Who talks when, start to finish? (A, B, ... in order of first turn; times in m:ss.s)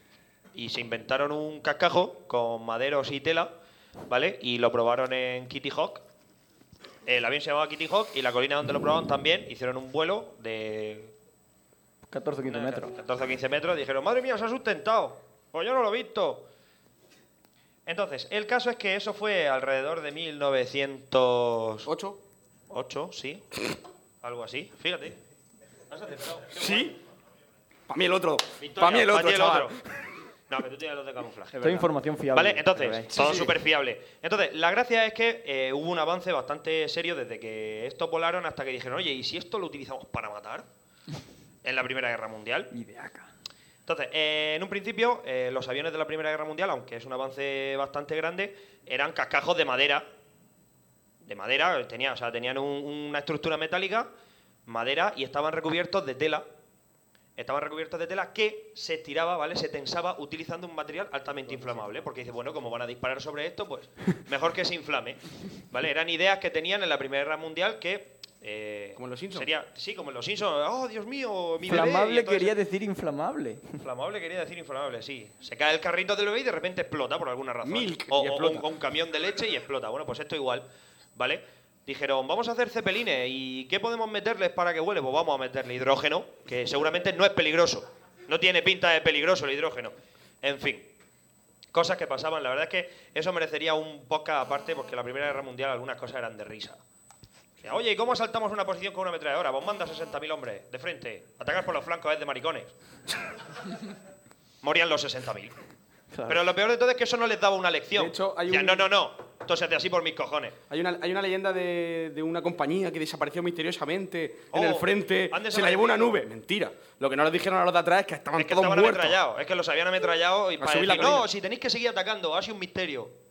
0:00.6-0:03.5 A
0:04.1-0:06.0 A
0:07.1-0:11.1 A
0:12.1-0:12.9 B
0:12.5-0:16.5 A
0:17.9-0:21.9 A
0:21.8-0:22.2 C
0:22.7-0:23.6 A
0:24.2-0:25.2 A
0:25.9-0:27.0 A
0:26.5-0:27.0 C
0:27.9-0:29.8 C
0:28.6-0:29.8 A
0:30.5-0:40.7 A
0:31.6-0:33.2 B
0:33.2-0:33.5 C
0:41.6-0:42.7 A
0:42.7-0:43.3 B
0:43.9-0:50.1 A
0:51.2-0:54.1 A
0:54.7-0:56.5 A
0:57.4-1:12.5 A
1:09.0-1:09.5 C
1:11.6-1:13.8 B
1:13.8-1:30.9 A
1:17.6-1:18.7 C
1:31.7-1:36.8 A
1:37.6-1:42.7 A
1:44.6-1:45.6 A
1:46.1-1:46.4 B
1:46.3-1:50.6 A
1:47.9-1:48.8 C
1:50.7-1:59.2 C
1:54.5-1:56.1 A
1:58.4-2:03.2 A
2:00.6-2:01.3 C